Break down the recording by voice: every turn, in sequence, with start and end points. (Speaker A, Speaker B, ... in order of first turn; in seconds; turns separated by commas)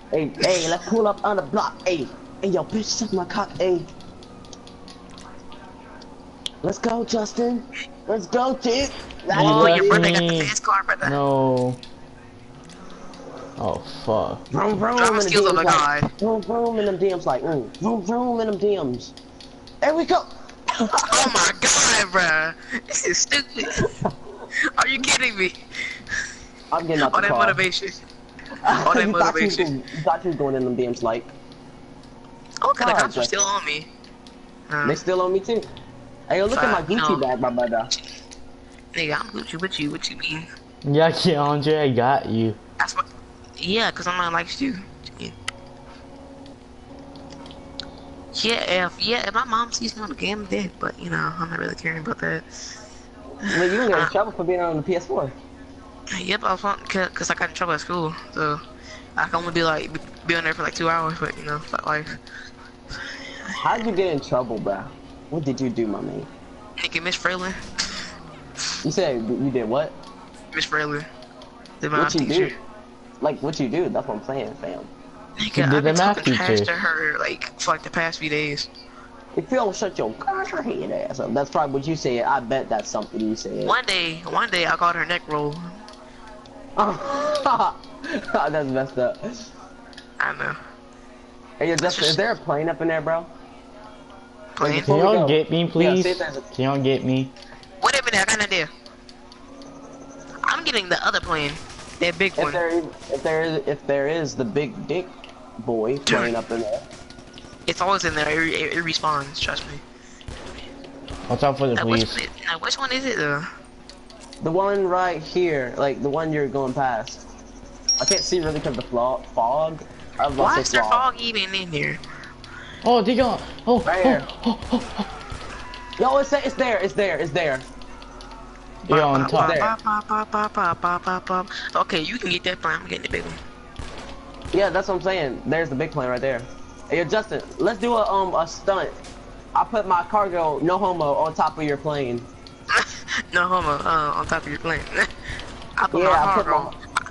Speaker A: 0.1-3.9, Speaker A: 6.6-10.1, Speaker B: 9.3-11.2, Speaker C: 9.3-11.8, Speaker C: 13.6-14.4, Speaker A: 14.5-19.1, Speaker B: 15.0-16.1, Speaker A: 19.8-21.3, Speaker B: 21.1-23.9, Speaker A: 23.8-24.1, Speaker B: 24.8-25.6, Speaker A: 26.7-27.6, Speaker B: 27.0-28.0, Speaker A: 28.6-31.3, Speaker B: 28.7-29.7, Speaker B: 32.6-33.9, Speaker A: 32.8-33.3, Speaker B: 34.7-35.0, Speaker A: 34.8-35.7, Speaker A: 36.3-37.9, Speaker B: 36.5-37.3, Speaker B: 38.9-40.5, Speaker C: 40.9-42.6, Speaker B: 42.8-43.0, Speaker B: 43.6-45.4, Speaker B: 48.3-52.5, Speaker B: 53.5-54.1, Speaker A: 53.5-55.4, Speaker B: 56.1-58.6, Speaker B: 59.2-62.2, Speaker A: 63.6-66.3, Speaker B: 66.8-67.6, Speaker A: 68.8-70.0, Speaker B: 70.5-71.1, Speaker B: 71.8-72.6, Speaker A: 71.9-72.6, Speaker A: 73.2-74.9, Speaker B: 75.4-78.7, Speaker C: 75.5-76.8, Speaker A: 79.4-83.7, Speaker B: 83.7-85.8, Speaker A: 86.8-89.5, Speaker B: 90.2-90.6, Speaker A: 91.6-93.3, Speaker B: 91.8-92.2, Speaker B: 94.6-94.9, Speaker A: 94.6-96.4, Speaker C: 94.7-97.3, Speaker B: 97.8-98.7, Speaker B: 100.5-102.6, Speaker A: 102.4-106.8, Speaker B: 106.1-106.3, Speaker B: 107.7-109.8, Speaker C: 111.3-112.2, Speaker B: 111.8-113.5, Speaker A: 114.4-117.2, Speaker A: 118.0-121.0, Speaker B: 120.4-122.0, Speaker C: 122.8-125.1, Speaker A: 123.9-124.2, Speaker A: 126.0-127.7, Speaker C: 128.9-129.6, Speaker B: 128.9-133.4, Speaker A: 129.3-129.7, Speaker A: 134.5-139.0, Speaker A: 139.6-142.3, Speaker B: 142.7-145.1, Speaker B: 145.8-146.7, Speaker A: 145.9-146.7